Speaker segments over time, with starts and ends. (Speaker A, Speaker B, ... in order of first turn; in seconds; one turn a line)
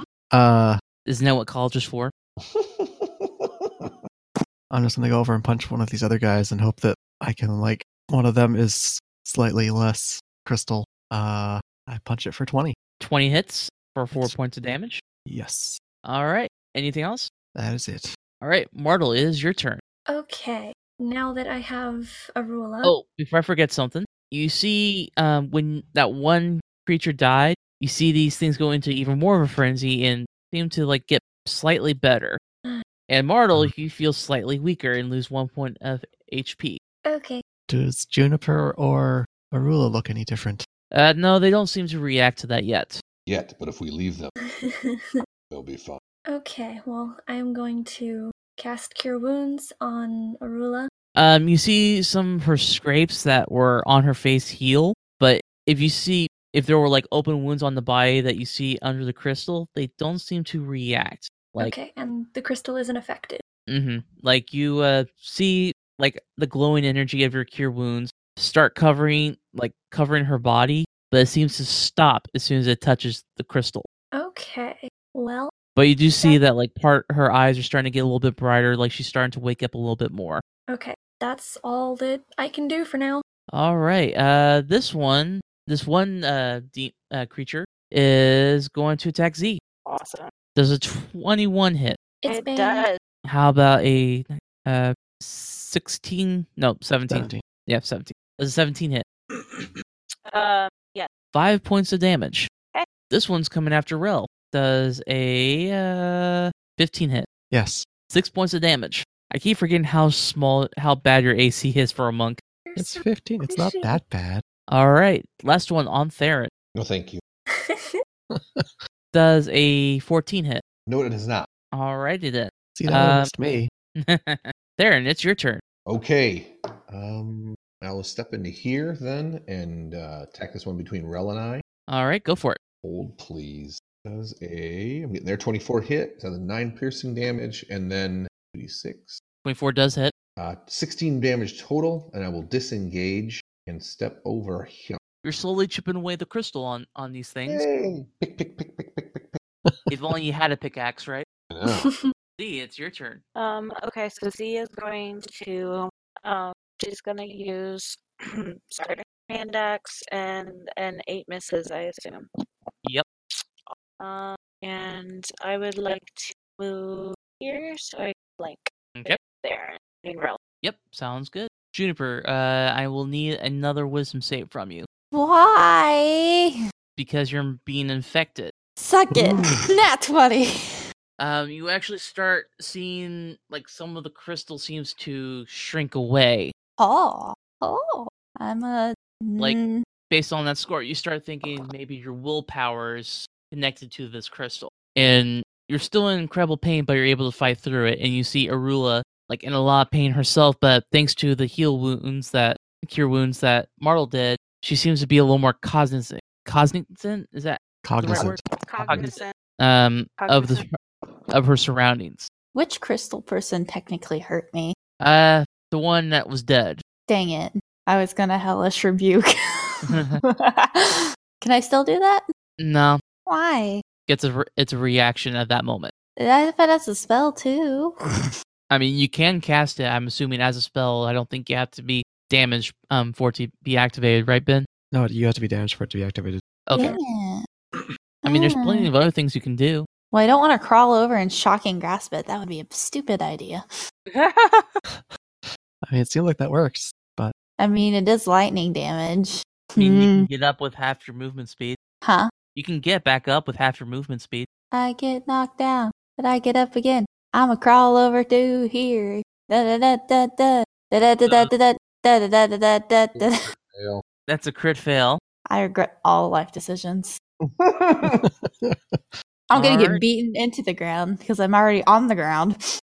Speaker A: 0.3-0.8
Speaker B: 1.1-2.1
Speaker C: 2.4-3.9
Speaker A: 4.7-12.8
Speaker B: 13.0-15.0
Speaker A: 15.3-15.8
Speaker B: 16.1-17.3
Speaker A: 17.6-18.1
Speaker B: 18.4-19.8
Speaker D: 20.1-22.9
Speaker B: 22.8-32.4
Speaker B: 33.1-36.8
Speaker D: 37.1-37.4
Speaker A: 37.7-40.7
Speaker B: 40.9-43.0
Speaker C: 43.3-44.4
Speaker D: 44.4-45.2
Speaker C: 45.5-46.0
Speaker D: 46.3-50.9
Speaker B: 51.2-61.7
Speaker D: 61.6-63.4
Speaker B: 63.7-73.9
Speaker D: 74.2-75.5
Speaker B: 75.8-80.4
Speaker D: 80.7-83.2
Speaker B: 83.5-89.6
Speaker E: 89.9-90.3
Speaker B: 90.6-92.0
Speaker D: 92.2-92.9
Speaker E: 92.3-93.0
Speaker B: 93.3-99.1
Speaker A: 97.1-97.4
Speaker E: 100.3-101.1
Speaker B: 101.3-102.5
Speaker B: 103.1-107.3
Speaker A: 107.5-107.9
Speaker B: 108.1-112.4
Speaker D: 112.7-114.0
Speaker A: 112.8-114.4
Speaker B: 114.7-116.5
Speaker C: 116.8-117.2
Speaker D: 117.5-118.0
Speaker A: 118.3-118.7
Speaker B: 119.1-120.6
Speaker C: 120.9-121.5
Speaker B: 121.7-123.3
Speaker A: 122.8-123.7
Speaker B: 124.0-125.6
Speaker C: 125.9-131.6
Speaker B: 131.9-132.6
Speaker C: 132.8-139.2
Speaker B: 139.4-140.1
Speaker C: 140.4-145.0
Speaker B: 145.2-147.7
Speaker C: 147.5-149.4
Speaker B: 149.9-151.3
Speaker C: 151.5-151.9
Speaker D: 151.7-152.1
Speaker B: 152.4-153.2
Speaker E: 153.4-162.3
Speaker E: 163.7-170.4
Speaker B: 170.6-174.9
Speaker F: 175.1-176.6
Speaker B: 177.0-178.5
Speaker F: 178.8-180.5
Speaker B: 181.2-186.5
Speaker F: 186.8-189.8
Speaker B: 190.1-210.8
Speaker A: 207.8-208.4
Speaker E: 208.1-209.3
Speaker E: 210.2-210.6
Speaker B: 211.3-212.3
Speaker F: 212.5-214.8
Speaker B: 215.0-216.8
Speaker F: 217.1-222.2
Speaker B: 219.9-220.2
Speaker B: 222.6-223.0
Speaker F: 223.3-223.8
Speaker B: 224.1-225.9
Speaker F: 226.2-228.3
Speaker B: 228.7-234.7
Speaker A: 234.9-236.4
Speaker B: 236.7-237.0
Speaker F: 236.8-237.4
Speaker F: 238.3-238.9
Speaker B: 238.3-239.9
Speaker F: 240.1-243.6
Speaker E: 244.2-244.7
Speaker A: 245.8-247.3
Speaker F: 247.6-250.3
Speaker B: 249.8-251.8
Speaker F: 252.0-252.3
Speaker B: 252.6-254.5
Speaker F: 254.7-263.5
Speaker B: 261.3-261.5
Speaker C: 263.1-264.0
Speaker B: 264.3-265.2
Speaker F: 265.5-267.2
Speaker C: 267.4-268.3
Speaker A: 268.0-269.0
Speaker F: 269.5-272.6
Speaker B: 269.5-270.0